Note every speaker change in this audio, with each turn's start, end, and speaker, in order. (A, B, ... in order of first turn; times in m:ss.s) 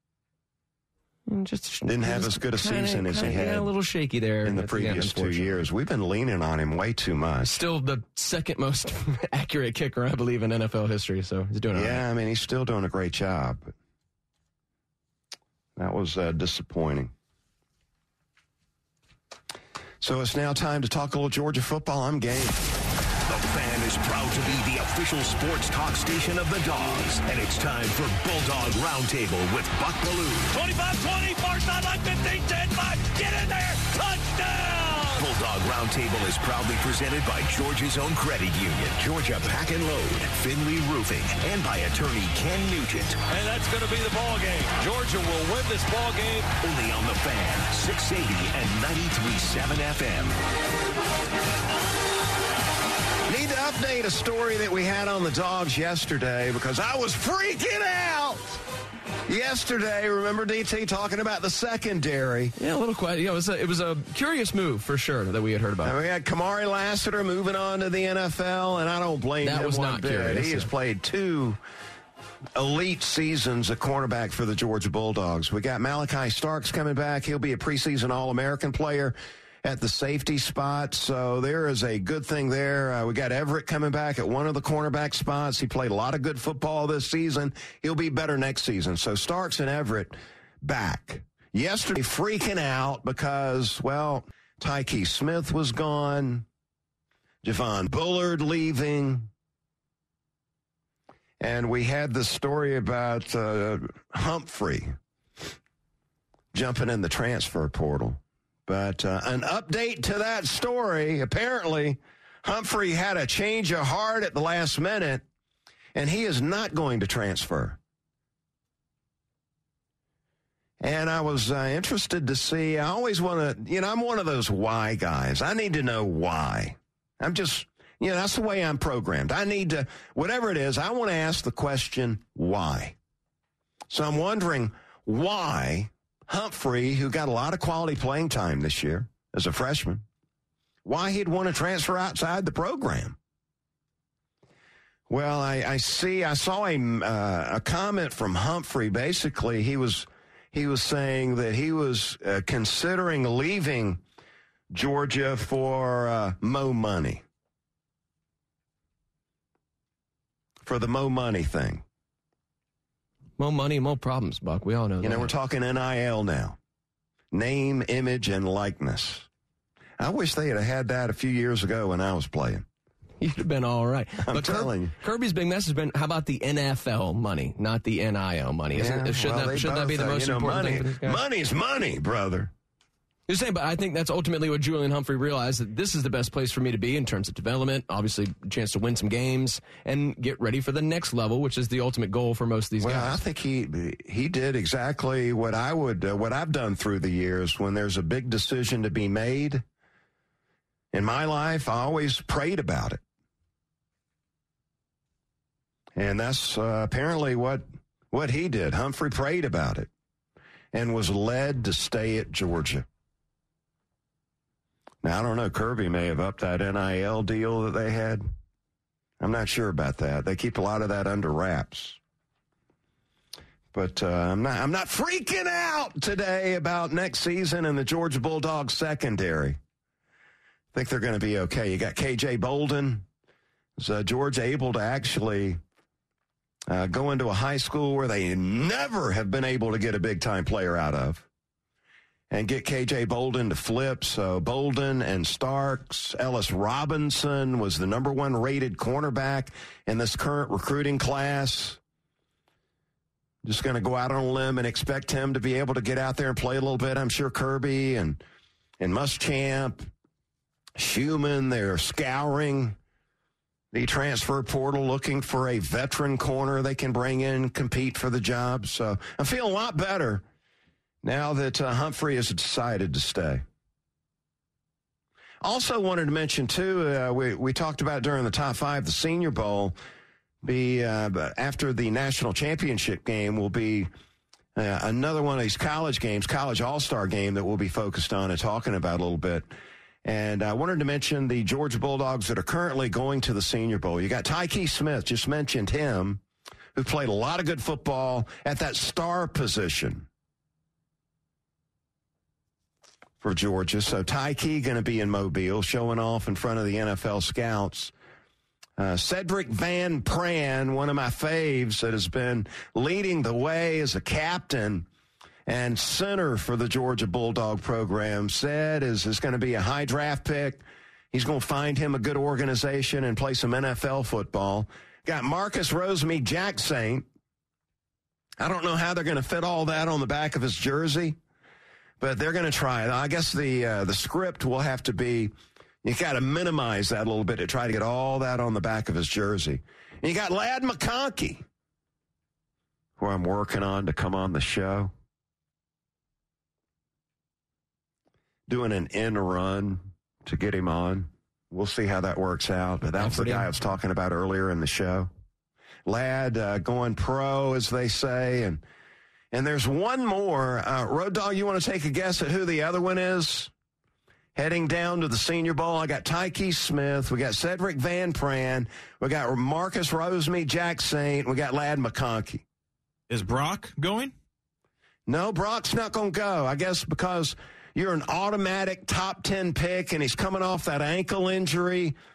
0:01.3-0:05.6 A
0:01.8-0:03.7 B
0:04.4-0:07.5 B
0:07.4-0:12.0 A
0:11.7-0:13.7 B
0:15.8-0:17.1 B
0:20.0-0:22.7 B
0:23.3-0:30.5 C
0:30.5-0:35.2 D
0:35.1-0:43.2 C
0:43.3-0:46.5 D
0:46.5-0:50.4 C
0:53.3-0:58.6 B
0:59.3-1:02.5 B
1:02.6-1:05.9 A
1:05.8-1:11.6 B
1:09.4-1:10.7 A
1:12.5-1:36.4 B
1:37.4-1:39.3 B
1:41.4-1:45.0 B
1:46.5-1:55.2 B
1:55.9-1:57.8 B
2:00.8-2:13.0 B
2:13.9-2:20.0 B
2:20.8-2:23.2 B
2:25.1-2:34.0 B
2:34.7-2:37.2 B
2:40.6-2:41.8 B
2:43.4-2:45.3 A
2:45.0-2:46.6 B
2:47.3-2:49.3 B
2:50.0-2:52.6 B
2:53.2-3:01.2 A
2:54.2-2:54.9 B
2:58.7-3:02.5 B
3:03.3-3:13.1 A
3:12.8-3:19.6 B
3:20.9-3:23.0 B
3:25.9-3:29.9 B
3:30.7-3:32.8 B
3:35.0-3:38.2 B
3:39.2-3:42.0 B
3:43.7-3:49.6 B
3:50.7-3:53.0 B
3:53.8-3:55.6 B
3:56.7-4:01.3 B
4:02.3-4:11.8 B
4:13.4-4:18.2 B
4:18.8-4:19.9 B
4:20.8-4:22.8 B
4:23.7-4:30.2 B
4:31.0-4:33.4 B
4:35.4-4:39.8 B
4:40.4-4:43.9 B
4:44.5-4:49.4 B
4:50.0-4:56.2 B
4:56.7-5:00.1 B
5:03.2-5:07.9 B
5:08.8-5:14.9 B
5:15.5-5:27.0 B
5:28.4-5:31.2 B
5:32.0-5:35.3 B
5:35.8-5:41.4 B
5:43.0-5:44.9 B
5:48.5-5:55.1 B
5:53.0-5:53.5 A
5:55.8-5:58.6 B
5:59.3-6:03.5 B
6:04.3-6:12.4 B
6:13.1-6:14.1 D
6:15.0-6:22.0 B